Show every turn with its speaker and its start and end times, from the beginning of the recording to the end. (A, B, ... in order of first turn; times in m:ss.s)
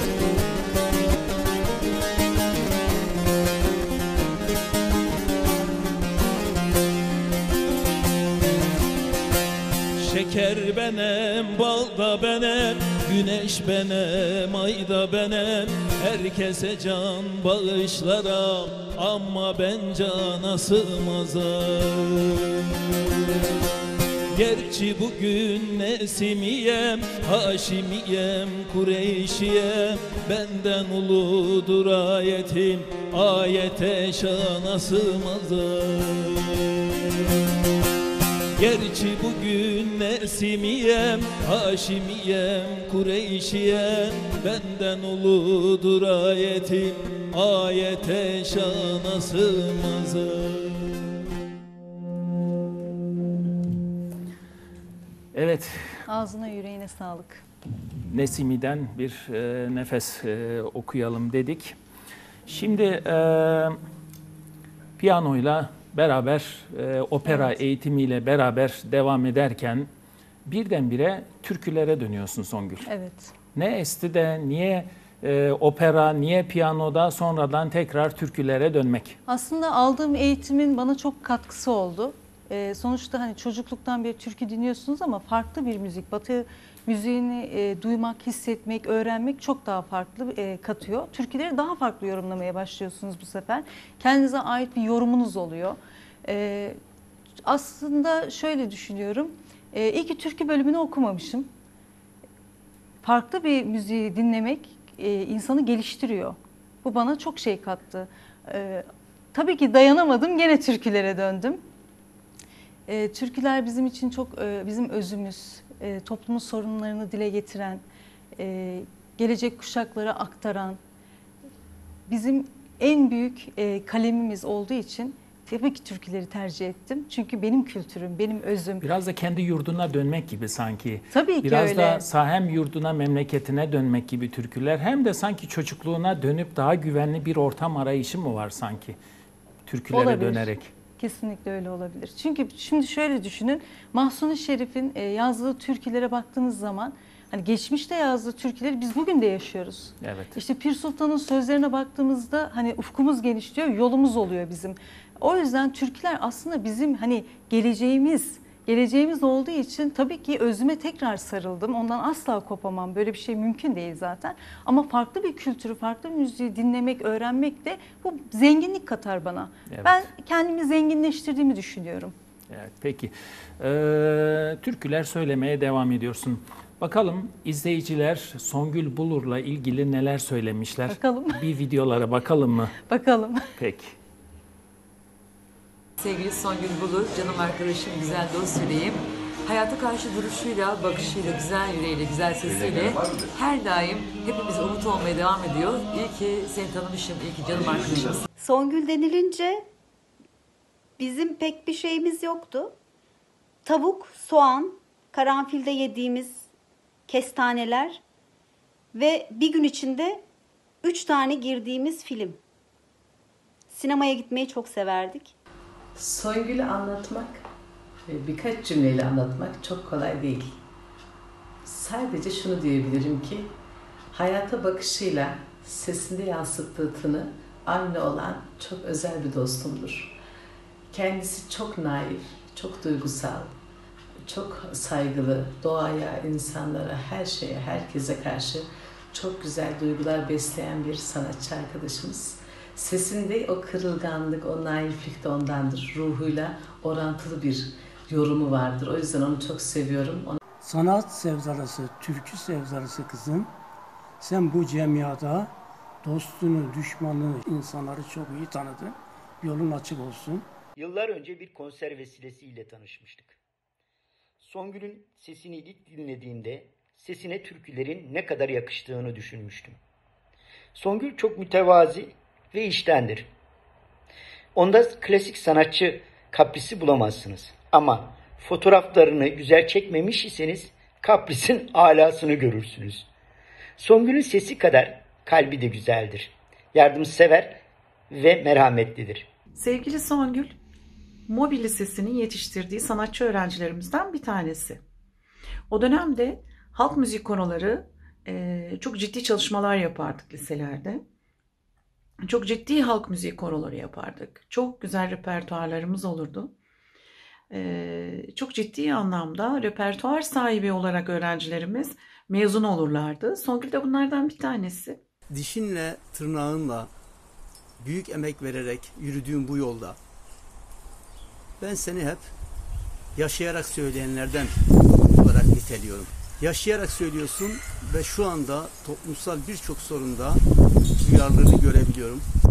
0:10.0-0:22.5 A
0:24.4-0:36.6 A
0:38.6-0:50.9 A
0:55.3-0:56.0 B
0:56.1-0:57.4 C
0:58.0-1:01.8 B
1:02.5-1:03.8 B
1:05.0-1:09.9 B
1:07.2-1:07.5 C
1:10.4-1:12.9 B
1:12.9-1:13.3 C
1:13.5-1:19.2 B
1:19.3-1:36.8 C
1:37.4-1:41.5 C
1:43.0-1:51.6 C
1:52.9-1:57.8 C
1:58.4-2:00.8 C
2:02.1-2:08.9 C
2:08.8-2:19.0 B
2:11.1-2:12.0 C
2:19.6-2:20.7 B
2:19.9-2:52.1 C
2:30.0-2:30.4 B
2:49.7-2:50.1 B
2:52.5-3:02.8 B
3:00.9-3:01.4 C
3:02.8-3:03.5 C
3:03.6-3:03.9 B
3:06.0-3:18.2 D
3:18.4-3:19.7 E
3:21.0-3:22.8 E
3:23.6-3:26.5 E
3:27.1-3:28.0 E
3:28.9-3:30.2 E
3:30.8-3:32.4 E
3:33.7-3:35.3 E
3:35.9-3:37.4 F
3:38.0-3:40.6 F
3:41.6-3:43.6 F
3:44.1-3:50.2 F
3:50.9-3:53.5 F
3:54.2-4:10.4 F
4:10.6-4:13.5 G
4:14.2-4:20.5 G
4:20.8-4:23.4 H
4:24.4-4:29.8 H
4:30.7-4:33.3 H
4:34.5-4:43.1 H
4:43.8-4:47.6 H
4:48.1-4:49.2 H
4:49.5-4:50.6 I
4:51.3-4:54.8 I
4:55.7-5:01.0 I
5:02.2-5:06.5 I
5:07.5-5:15.0 I
5:15.3-5:16.9 J
5:17.8-5:20.0 J
5:21.6-5:22.3 J
5:23.1-5:24.5 J
5:25.0-5:30.4 J
5:31.0-5:32.2 J